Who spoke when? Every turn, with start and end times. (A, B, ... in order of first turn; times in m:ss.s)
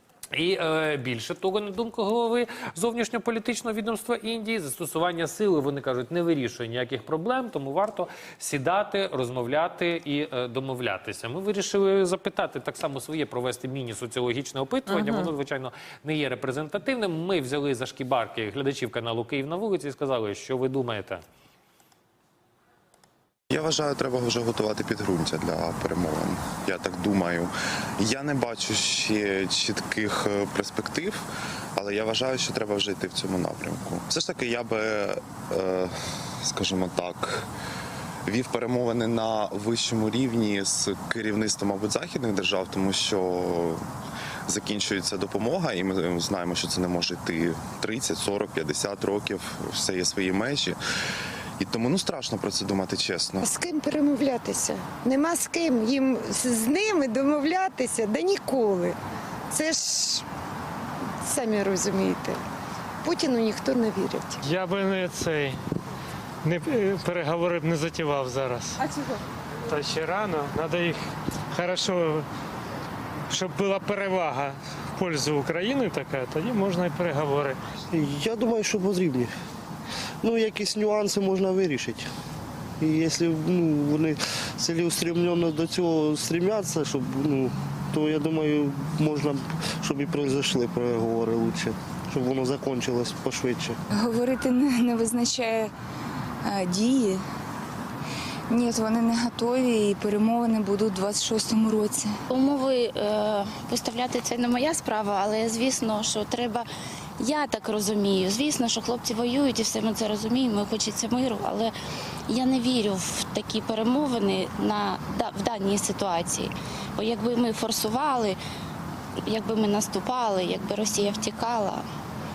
0:00.3-0:21.2 A
0:23.5-0:31.2 B
0:31.8-0:37.5 B
0:38.2-0:43.8 B
0:44.5-0:50.8 B
0:51.6-0:53.5 B
0:53.4-0:59.0 C
0:59.5-1:00.2 C
1:01.2-1:02.4 C
1:03.0-1:04.4 C
1:04.4-1:05.6 D
1:06.4-1:08.8 D
1:09.7-1:11.0 D
1:11.5-1:12.3 D
1:13.3-1:17.6 D
1:17.9-1:19.3 E
1:20.2-1:22.1 E
1:22.8-1:33.8 E
1:34.2-1:35.7 F
1:36.6-1:37.2 F
1:38.5-1:42.1 F
1:42.3-1:46.7 G
1:47.2-1:51.8 G
1:52.3-1:58.4 G
1:59.2-2:01.8 G